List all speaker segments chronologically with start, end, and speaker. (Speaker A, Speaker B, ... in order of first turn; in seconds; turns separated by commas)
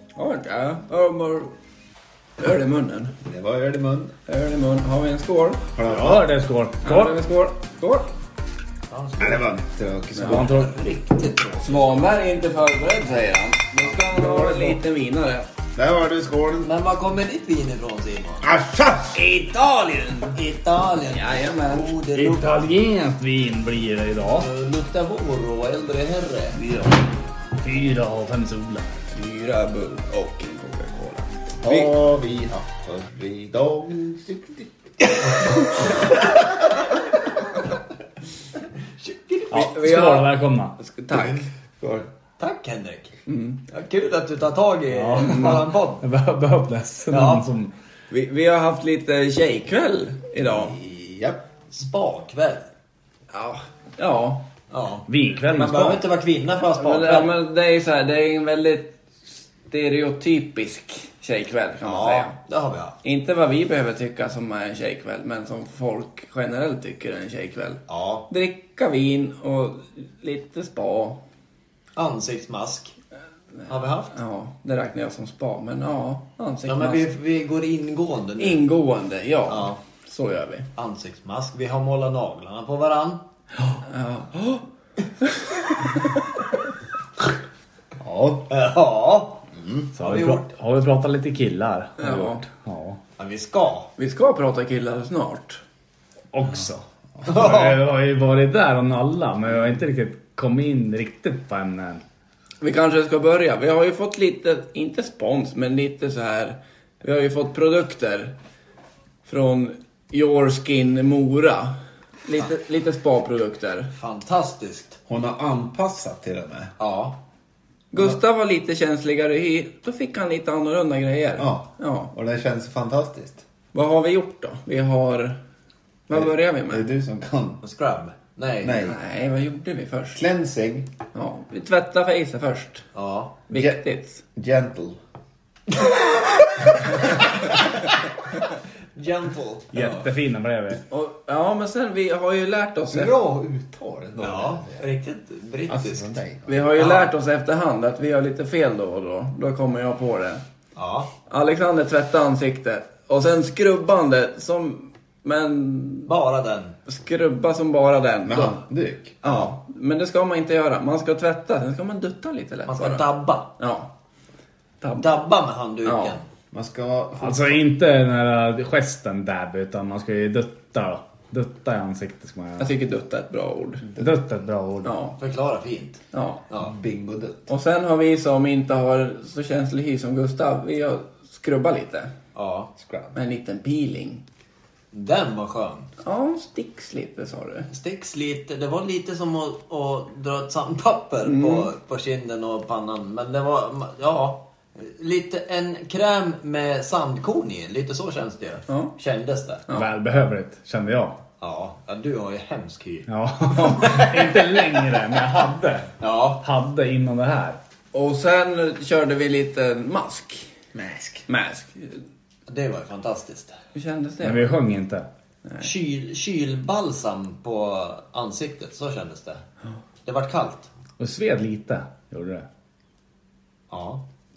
Speaker A: 0.1-1.5, Speaker A: 2.4-3.1, Speaker B: 3.2-4.1, Speaker A: 4.3-5.6, Speaker B: 5.7-6.3, Speaker C: 5.8-7.2, Speaker A: 6.8-8.1, Speaker D: 8.9-9.5, Speaker B: 9.2-10.5, Speaker C: 10.2-10.7, Speaker D: 10.2-12.2, Speaker A: 11.6-15.5, Speaker C: 14.3-14.8, Speaker B: 15.7-16.7, Speaker D: 16.6-18.5, Speaker B: 18.4-19.2, Speaker A: 19.3-20.3, Speaker D: 20.2-22.7, Speaker A: 21.1-21.9, Speaker C: 22.1-24.5, Speaker D: 24.4-26.6, Speaker C: 27.6-28.9, Speaker A: 29.1-31.9, Speaker B: 31.6-36.6, Speaker D: 39.0-39.7, Speaker C: 39.5-40.8, Speaker A: 39.5-41.5, Speaker B: 41.1-42.1, Speaker D: 42.4-43.1, Speaker A: 43.3-43.6, Speaker D: 43.7-46.0, Speaker C: 44.9-47.7, Speaker A: 45.2-45.6, Speaker D: 47.1-47.4, Speaker A: 48.1-50.8, Speaker B: 50.5-51.4, Speaker D: 51.7-52.7, Speaker A: 53.3-54.5, Speaker D: 54.7-57.3, Speaker C: 55.1-56.1, Speaker A: 56.8-59.0, Speaker A: 59.6-62.4, Speaker D: 61.8-63.0, Speaker A: 63.0-71.2, Speaker D: 67.9-68.3, Speaker D: 71.9-72.9, Speaker D: 73.7-74.2, Speaker A: 74.1-77.1, Speaker D: 76.7-78.6, Speaker A: 78.4-80.7, Speaker D: 79.5-79.8, Speaker D: 80.8-83.2, Speaker A: 83.8-84.6, Speaker D: 88.5-90.4, Speaker C: 89.9-93.0, Speaker A: 92.0-92.4, Speaker D: 93.2-93.9, Speaker A: 94.0-95.6, Speaker C: 96.3-102.0, Speaker D: 97.2-97.8, Speaker A: 102.6-108.3, Speaker A: 109.2-113.9, Speaker D: 113.9-115.0, Speaker B: 115.1-116.7, Speaker D: 116.8-117.2, Speaker A: 117.9-122.1, Speaker B: 121.4-123.4, Speaker A: 123.7-125.4, Speaker A: 126.1-126.8, Speaker B: 126.1-127.6, Speaker D: 127.6-128.9, Speaker B: 128.6-129.0, Speaker A: 128.8-130.2, Speaker B: 130.1-130.9, Speaker A: 131.1-132.8, Speaker D: 132.9-133.4, Speaker A: 133.5-134.2, Speaker B: 133.5-133.8, Speaker B: 134.3-135.0, Speaker B: 135.8-137.2, Speaker D: 138.9-140.1, Speaker C: 139.7-140.8, Speaker A: 140.9-143.2, Speaker B: 142.9-144.8, Speaker D: 144.2-146.2, Speaker B: 145.7-146.5, Speaker A: 146.4-150.4, Speaker D: 146.8-147.1, Speaker D: 150.7-151.1, Speaker A: 151.3-156.1, Speaker D: 156.1-156.8, Speaker A: 156.9-158.6, Speaker B: 158.2-159.5, Speaker A: 159.2-163.9, Speaker D: 162.7-163.5, Speaker A: 164.8-165.1, Speaker D: 165.0-166.2, Speaker A: 165.8-166.2, Speaker B: 166.5-167.6, Speaker C: 167.2-172.7, Speaker A: 172.6-173.9, Speaker C: 174.0-175.0, Speaker A: 174.8-175.2, Speaker D: 175.2-176.7, Speaker A: 176.1-176.4, Speaker B: 176.6-177.5, Speaker A: 177.5-182.1, Speaker D: 182.3-182.7, Speaker B: 182.8-183.1, Speaker A: 183.1-184.2, Speaker D: 184.9-185.9, Speaker A: 186.0-187.7, Speaker D: 187.7-199.6, Speaker A: 191.2-191.7, Speaker A: 198.7-198.9, Speaker C: 199.7-201.2, Speaker D: 201.4-205.0, Speaker C: 203.1-207.6, Speaker D: 206.0-206.4, Speaker A: 207.9-210.5, Speaker B: 210.7-211.2, Speaker A: 211.3-212.0, Speaker D: 212.5-213.6, Speaker A: 213.7-214.5, Speaker C: 214.2-215.1, Speaker D: 215.6-219.4, Speaker D: 220.0-220.7, Speaker C: 221.0-222.4, Speaker D: 223.7-224.0